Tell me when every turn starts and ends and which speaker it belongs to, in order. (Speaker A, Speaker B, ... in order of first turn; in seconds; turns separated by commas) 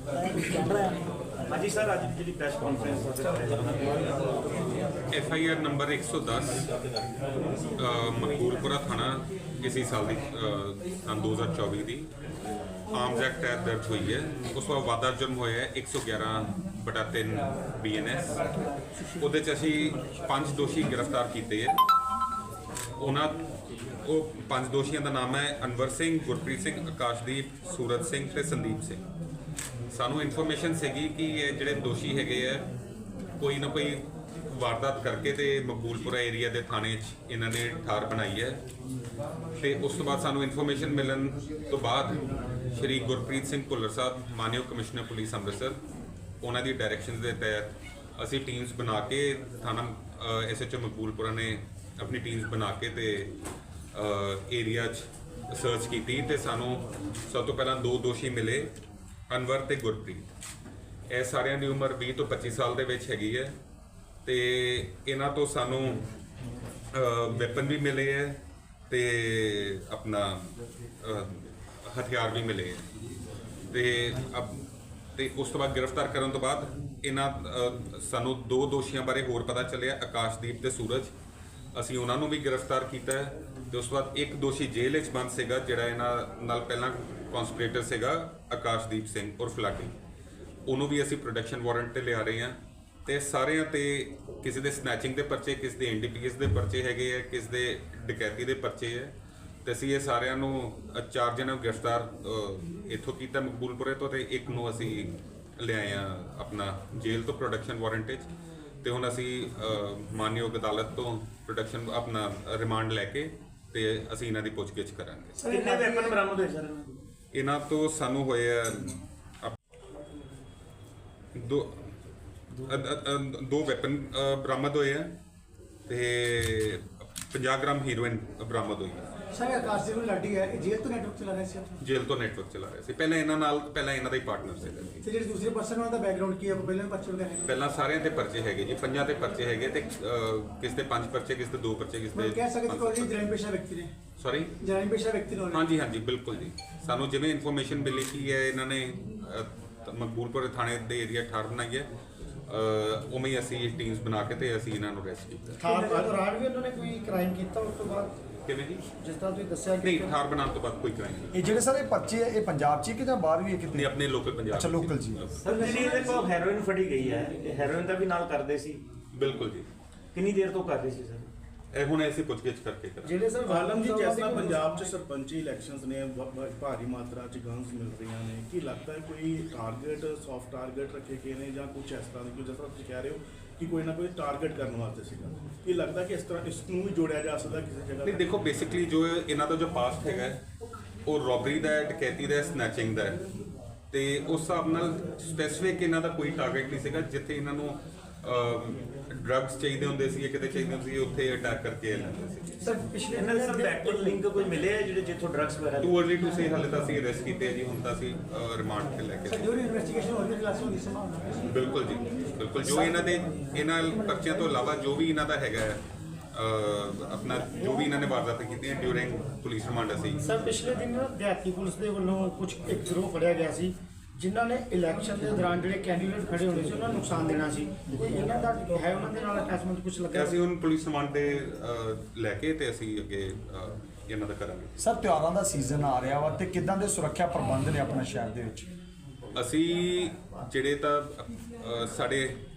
Speaker A: 0.3-4.2, Speaker B: 5.1-6.7, Speaker B: 7.8-12.1, Speaker B: 12.9-18.4, Speaker B: 19.2-21.8, Speaker B: 23.0-23.4, Speaker B: 24.0-29.0, Speaker B: 29.9-32.7, Speaker B: 33.4-38.6, Speaker B: 39.6-45.8, Speaker B: 46.4-53.3, Speaker B: 53.9-58.7, Speaker B: 59.3-60.3, Speaker B: 61.1-63.6, Speaker B: 64.2-66.0, Speaker B: 66.9-72.8, Speaker B: 73.7-74.6, Speaker B: 75.2-81.1, Speaker B: 81.7-89.9, Speaker B: 90.7-99.1, Speaker B: 99.6-108.3, Speaker B: 108.8-115.4, Speaker C: 115.4-116.2, Speaker A: 115.4-117.0, Speaker B: 117.3-119.5, Speaker B: 121.3-121.7, Speaker B: 122.6-125.1, Speaker B: 125.9-129.1, Speaker C: 129.3-131.7, Speaker B: 131.8-135.0, Speaker C: 135.0-137.5, Speaker B: 137.4-143.2, Speaker C: 142.1-143.9, Speaker B: 144.2-144.5, Speaker C: 144.6-145.6, Speaker B: 145.5-151.9, Speaker B: 152.5-155.6, Speaker D: 155.6-158.2, Speaker C: 155.6-156.1, Speaker B: 158.4-158.8, Speaker D: 159.0-160.2, Speaker B: 159.8-161.5, Speaker E: 161.3-165.2, Speaker B: 163.7-165.4, Speaker A: 165.4-168.8, Speaker C: 165.4-166.3, Speaker B: 169.1-169.7, Speaker A: 170.1-171.3, Speaker B: 171.7-173.1, Speaker D: 173.0-174.9, Speaker F: 173.4-188.3, Speaker B: 188.0-190.4, Speaker B: 191.1-193.2, Speaker B: 193.9-202.5, Speaker C: 202.6-203.8, Speaker D: 202.6-204.1, Speaker A: 203.1-206.0, Speaker B: 205.8-209.5, Speaker C: 209.2-211.4, Speaker B: 211.5-215.8, Speaker B: 216.3-220.2, Speaker D: 220.2-230.4, Speaker B: 230.1-234.7, Speaker E: 234.8-238.7, Speaker B: 239.4-241.0, Speaker B: 241.6-242.3